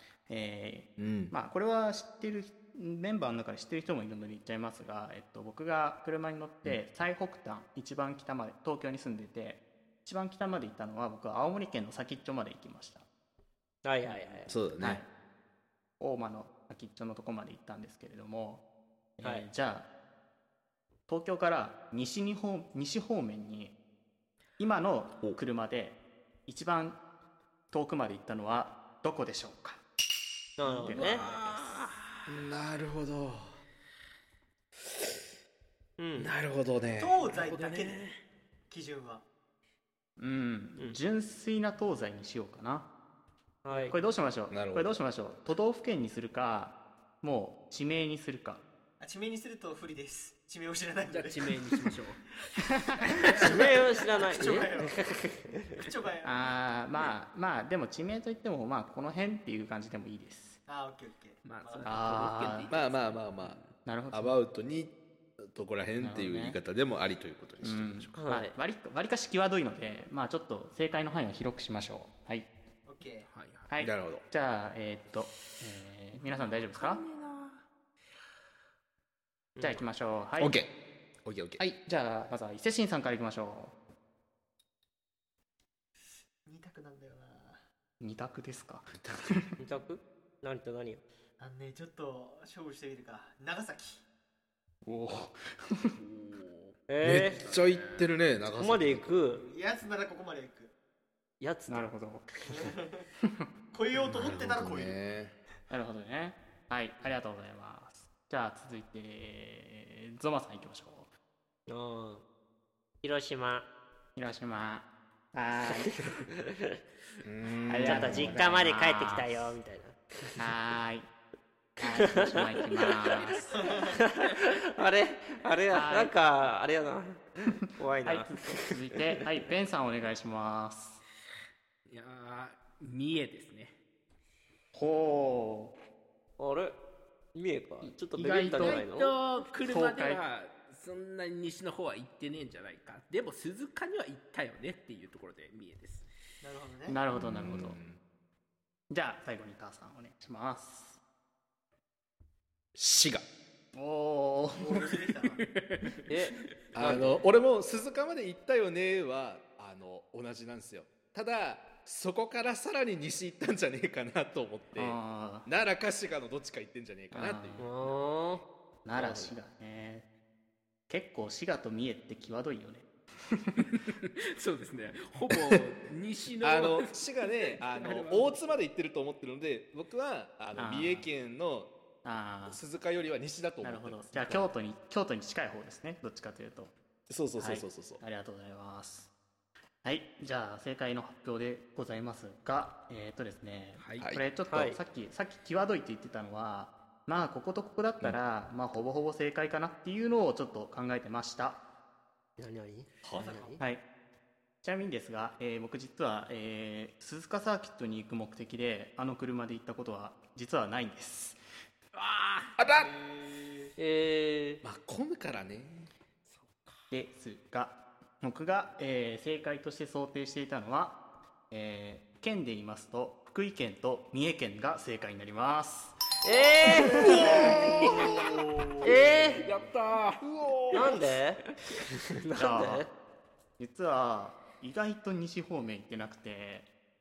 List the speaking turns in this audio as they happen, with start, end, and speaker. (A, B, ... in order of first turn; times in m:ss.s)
0:00.3-0:13.0 A
0:01.0-0:01.3 B
0:13.8-0:14.6 C
0:14.5-0:15.0 B
0:14.8-0:15.1 A
0:16.0-0:18.6 A
0:19.2-0:19.9 A
0:21.1-0:23.7 A
0:24.6-0:27.0 A
0:27.7-0:29.8 A
0:30.6-0:31.3 C
0:30.8-0:31.4 A
0:30.9-0:32.2 D
0:32.2-0:33.5 B
0:36.0-0:36.3 C
0:36.2-0:37.1 B
0:37.0-0:38.1 E
0:37.2-0:38.2 D
0:38.7-0:39.2 E
0:40.2-0:42.9 A
0:43.6-0:44.0 C
0:43.7-0:48.6 A
0:44.5-0:45.0 B
0:49.0-0:51.7 E
0:51.1-0:52.3 D
0:53.1-0:53.8 D
0:53.2-0:55.1 E
0:53.4-0:55.3 C
0:55.7-0:56.5 E
0:56.2-1:00.6 A
1:00.6-1:02.2 E
1:01.4-1:03.7 D
1:01.8-1:02.7 A
1:02.7-1:03.6 B
1:03.8-1:04.4 A
1:04.1-1:08.2 B
1:06.0-1:06.6 A
1:07.6-1:12.5 A
1:08.2-1:08.5 C
1:12.8-1:13.3 E
1:13.3-1:13.7 D
1:13.7-1:17.0 A
1:13.8-1:14.2 B
1:16.3-1:17.6 D
1:19.6-1:19.8 C
1:19.6-1:20.6 A
1:20.4-1:20.7 B
1:21.2-1:21.6 B
1:21.6-1:23.7 A
1:26.4-1:27.6 E
1:28.0-1:29.5 A
1:29.6-1:31.0 C
1:31.4-1:34.0 E
1:34.8-1:36.0 A
1:36.0-1:38.1 D
1:36.9-1:37.4 C
1:37.0-1:39.2 B
1:38.6-1:39.4 C
1:39.3-1:40.7 E
1:41.4-1:41.9 C
1:41.7-1:42.3 A
1:42.4-1:43.0 E
1:43.7-1:45.0 E
1:44.0-1:45.3 B
1:45.7-1:51.1 A
1:51.7-1:52.2 C
1:53.0-1:53.6 C
1:54.2-1:56.1 A
1:57.2-1:58.4 B
1:57.7-1:59.5 A
1:57.8-2:00.0 C
2:00.4-2:01.1 A
2:01.8-2:03.7 A
2:03.5-2:04.0 E
2:03.9-2:08.6 C
2:05.7-2:06.1 A
2:08.0-2:11.0 A
2:11.9-2:13.7 D
2:14.7-2:15.7 A
2:16.4-2:16.8 C
2:17.3-2:19.1 C
2:17.8-2:18.8 A
2:18.2-2:26.1 D
2:19.6-2:20.2 A
2:26.4-2:27.0 E
2:26.9-2:27.8 A
2:27.1-2:28.0 B
2:28.9-2:31.0 A
2:32.7-2:33.2 B
2:33.7-2:35.0 A
2:34.6-2:35.4 E
2:35.4-2:36.0 D
2:36.1-2:37.2 C
2:36.7-2:47.6 B
2:44.8-2:45.5 A
2:47.1-2:47.7 A
2:47.6-2:48.4 C
2:48.8-2:50.1 A
2:49.0-2:49.3 C
2:50.9-2:53.7 A
2:53.7-2:56.9 D
2:56.4-3:01.7 B
2:57.7-2:58.3 D
3:00.6-3:01.0 A
3:02.0-3:02.6 A
3:02.5-3:04.5 B
3:03.6-3:06.7 A
3:07.1-3:08.0 B
3:07.4-3:09.1 A
3:09.8-3:21.6 A
3:14.0-3:14.2 B
3:14.5-3:14.8 C
3:22.4-3:23.6 C
3:23.0-3:23.4 B
3:23.1-3:23.6 E
3:24.6-3:31.4 A
3:32.0-3:32.5 D
3:32.6-3:32.9 B
3:32.8-3:33.7 E
3:33.8-3:34.6 C
3:34.6-3:35.9 B
3:36.9-3:41.0 A
3:41.5-3:46.0 A
3:46.2-3:47.5 C
3:46.8-3:47.5 A
3:46.9-3:49.6 E
3:47.4-3:48.1 B
3:48.8-3:49.5 C
3:49.0-3:50.2 D
3:50.2-3:51.0 B
3:50.7-3:51.4 C
3:52.2-3:52.9 C
3:52.4-3:52.9 A
3:53.6-3:56.7 A